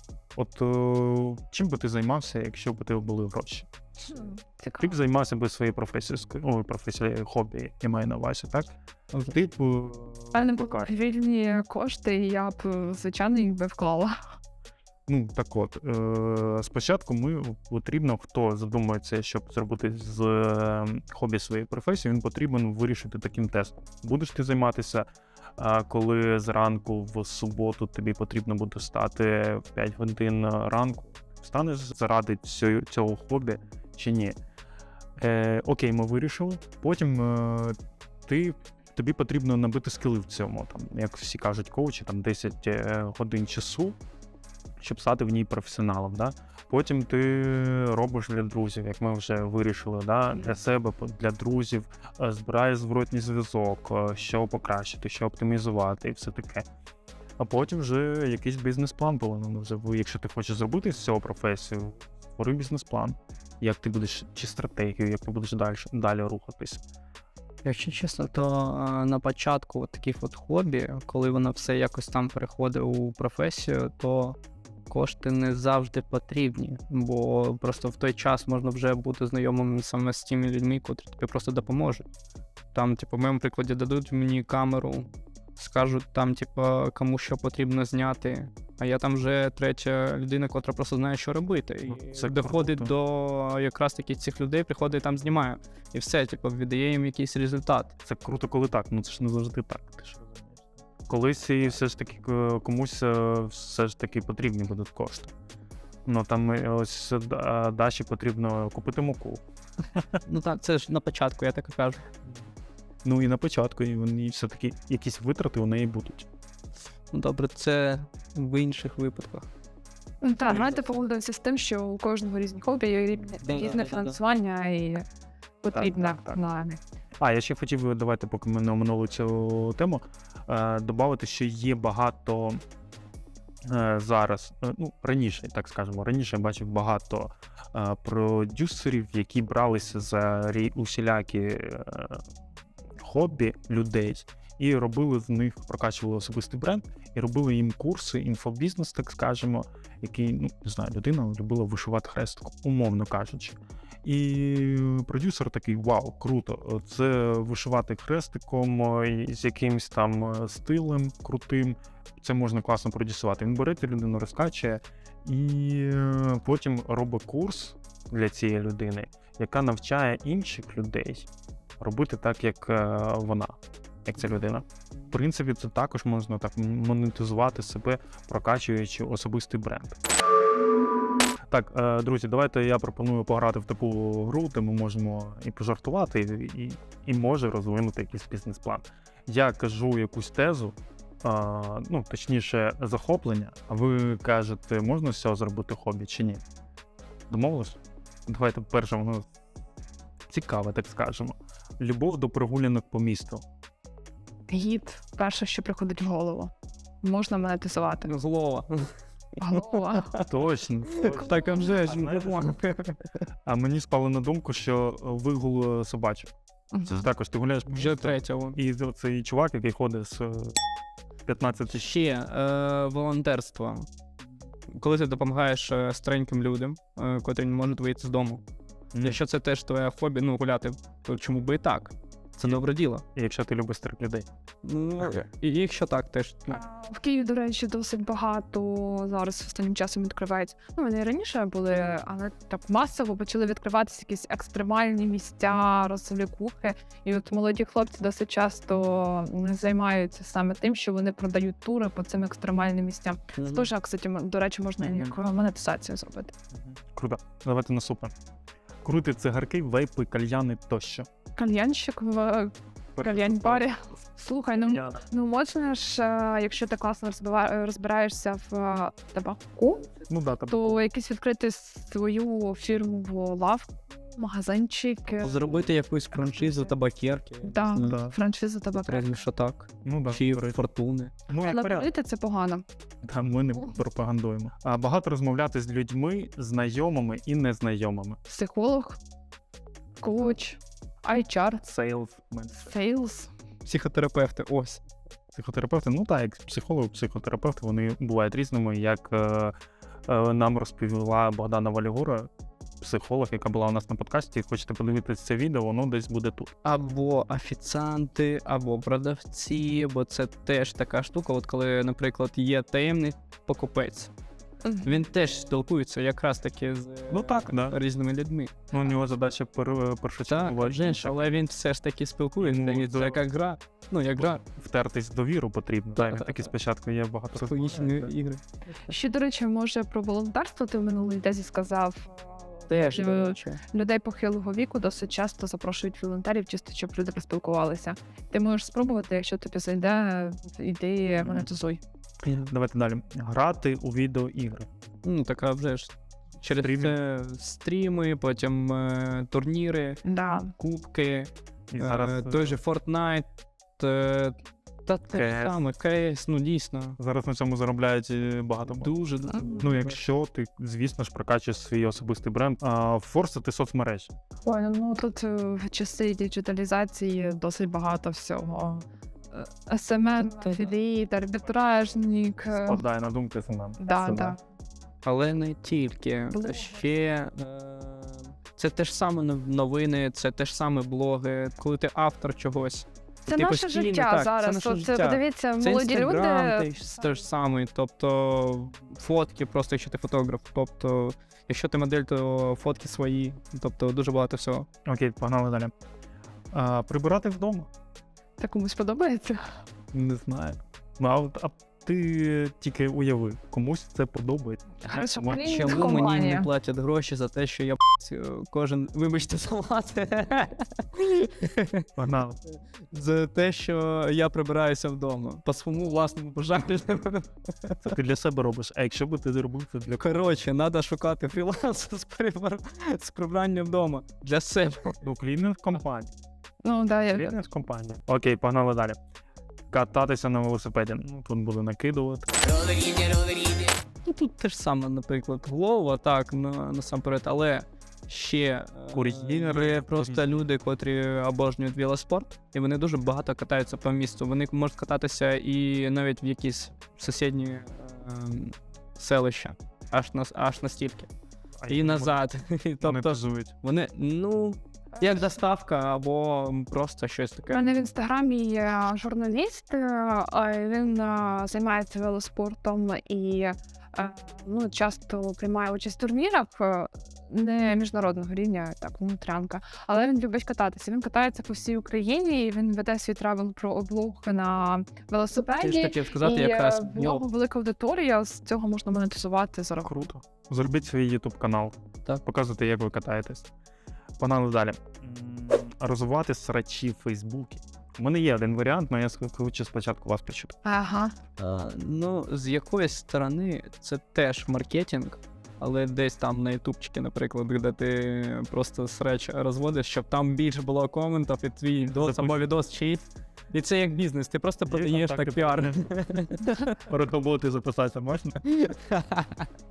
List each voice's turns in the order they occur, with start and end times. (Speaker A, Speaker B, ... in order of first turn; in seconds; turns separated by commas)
Speaker A: 0.3-10.9, Speaker B: 4.1-5.0, Speaker B: 10.3-14.2, Speaker A: 15.1-34.4, Speaker A: 35.2-44.0, Speaker A: 44.8-56.7, Speaker A: 57.4-66.8, Speaker C: 67.7-74.4, Speaker C: 74.9-82.1, Speaker C: 82.7-97.9, Speaker A: 91.9-92.9, Speaker A: 98.0-105.3, Speaker A: 106.1-109.4, Speaker C: 110.2-112.1, Speaker A: 113.0-116.3, Speaker C: 117.1-119.5, Speaker B: 120.2-125.0, Speaker C: 123.4-124.1, Speaker B: 125.6-126.8, Speaker A: 125.7-126.4, Speaker A: 127.2-132.6, Speaker A: 133.6-142.3, Speaker A: 143.0-171.3, Speaker A: 171.8-180.0, Speaker A: 181.5-196.4, Speaker A: 197.3-199.3, Speaker A: 200.3-203.4, Speaker B: 204.5-208.1, Speaker C: 208.0-209.0, Speaker B: 209.4-210.1, Speaker C: 209.6-210.2, Speaker A: 210.2-212.5, Speaker C: 210.9-213.0, Speaker A: 213.5-216.3, Speaker B: 216.7-217.0, Speaker A: 216.8-220.6, Speaker C: 217.7-218.6, Speaker A: 221.3-221.9, Speaker C: 221.7-223.9, Speaker C: 224.7-228.4, Speaker A: 228.9-229.2, Speaker C: 229.0-233.0, Speaker A: 233.2-234.3, Speaker C: 234.6-236.6, Speaker B: 236.5-256.3, Speaker C: 253.4-253.7, Speaker A: 256.5-258.1, Speaker A: 258.8-261.1, Speaker B: 261.4-269.9, Speaker A: 262.9-263.7, Speaker A: 264.7-265.0, Speaker A: 270.1-270.8, Speaker B: 270.5-276.7, Speaker C: 275.2-277.9, Speaker B: 277.4-279.2, Speaker A: 277.8-278.1, Speaker C: 278.7-281.1, Speaker A: 279.8-280.7, Speaker A: 281.3-281.9, Speaker B: 281.4-282.6, Speaker A: 283.0-288.2, Speaker B: 288.3-289.0, Speaker B: 290.0-291.7, Speaker A: 291.6-292.7, Speaker B: 292.6-293.3, Speaker C: 293.6-294.8, Speaker A: 295.3-299.6, Speaker A: 300.1-302.3, Speaker A: 302.8-306.5, Speaker C: 306.6-314.1, Speaker B: 314.6-314.9, Speaker C: 314.8-318.6, Speaker A: 317.1-317.8, Speaker A: 318.7-321.3, Speaker C: 320.3-324.4, Speaker A: 322.4-323.2, Speaker A: 324.2-328.1, Speaker C: 327.4-328.4, Speaker B: 328.9-341.8, Speaker C: 332.7-333.6, Speaker A: 341.2-341.5, Speaker C: 342.2-342.5, Speaker A: 342.4-344.7, Speaker C: 345.1-350.0, Speaker A: 346.6-347.0, Speaker B: 350.1-350.5, Speaker C: 350.6-353.3, Speaker A: 351.7-352.6, Speaker C: 353.8-357.0, Speaker A: 355.1-355.6, Speaker A: 357.0-358.9, Speaker C: 358.7-359.9, Speaker B: 359.3-359.6, Speaker A: 359.5-364.1, Speaker B: 364.4-372.8, Speaker A: 372.6-374.4, Speaker B: 373.8-374.4, Speaker C: 375.0-394.7, Speaker B: 376.3-376.8, Speaker B: 383.3-387.1, Speaker A: 394.9-395.7, Speaker A: 396.5-397.7, Speaker B: 398.4-399.6, Speaker A: 399.9-405.8, Speaker B: 404.8-406.5, Speaker C: 405.3-411.9, Speaker A: 412.0-412.4, Speaker C: 412.9-417.8, Speaker A: 417.8-420.2, Speaker C: 420.0-425.0, Speaker A: 425.0-426.1, Speaker B: 426.6-427.3, Speaker A: 427.1-429.0, Speaker A: 429.7-432.3, Speaker C: 432.5-451.1, Speaker A: 438.9-440.3, Speaker A: 451.6-452.1, Speaker C: 451.7-457.6, Speaker A: 452.8-453.5, Speaker B: 457.5-479.9, Speaker C: 475.6-477.2, Speaker A: 479.8-483.5, Speaker A: 484.2-490.6, Speaker B: 490.6-491.1, Speaker C: 491.4-506.8, Speaker A: 502.0-502.4, Speaker A: 504.7-506.2, Speaker A: 506.8-508.6, Speaker C: 508.5-509.5